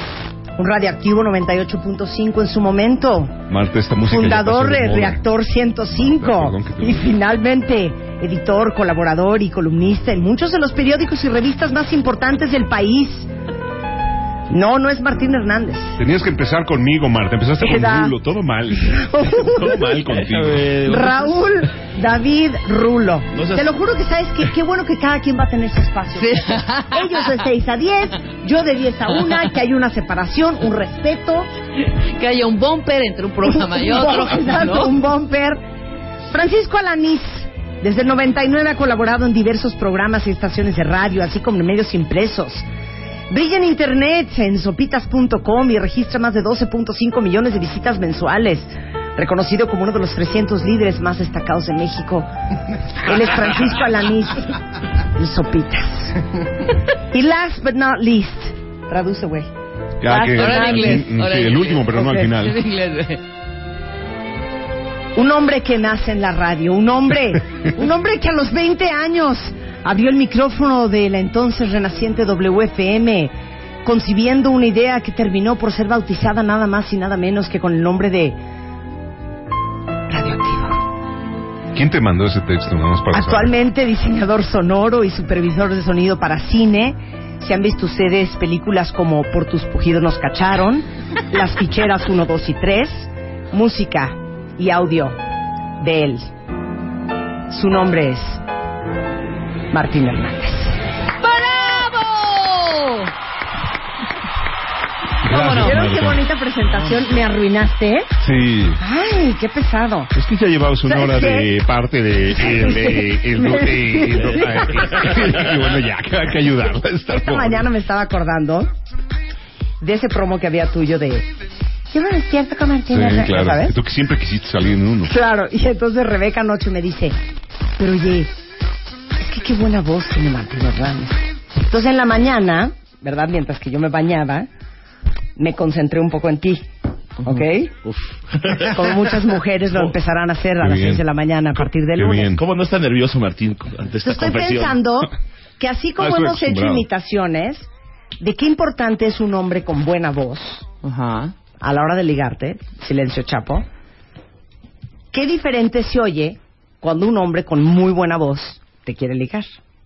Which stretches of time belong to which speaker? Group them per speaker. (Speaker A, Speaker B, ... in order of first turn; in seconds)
Speaker A: 0.6-3.4, 4.0-13.3, 14.5-16.0, 17.6-18.1, 18.8-20.0, 20.9-31.5, 33.4-35.6, 36.3-42.6, 43.3-52.3, 53.0-54.5, 55.1-56.2, 57.1-59.5, 60.0-61.0, 65.1-73.3, 73.8-78.4, 80.1-80.8, 83.1-95.2, 95.8-96.3, 97.5-98.4, 99.7-100.7, 105.3-108.1, 108.8-110.1, 110.9-111.5, 112.4-115.4, 117.1-118.7, 119.8-121.3, 121.9-123.7, 125.0-127.2, 127.8-128.3, 129.2-134.5, 135.4-136.7, 137.2-137.7, 138.6-142.4, 144.0-147.7, 148.2-150.7, 151.6-153.7, 155.1-159.5
Speaker B: 3.5-5.2, 5.9-7.1, 16.0-20.7, 60.0-62.6, 81.7-83.5, 105.2-106.2, 108.2-108.8, 110.1-117.7, 122.9-125.1, 140.6-141.0, 141.9-142.4, 146.0-146.8
Speaker C: 19.7-21.4, 23.3-23.7, 137.8-138.9, 142.4-144.8
Speaker D: 26.2-27.3, 31.8-34.9, 60.3-63.2, 101.2-103.1, 105.3-105.8, 150.8-151.3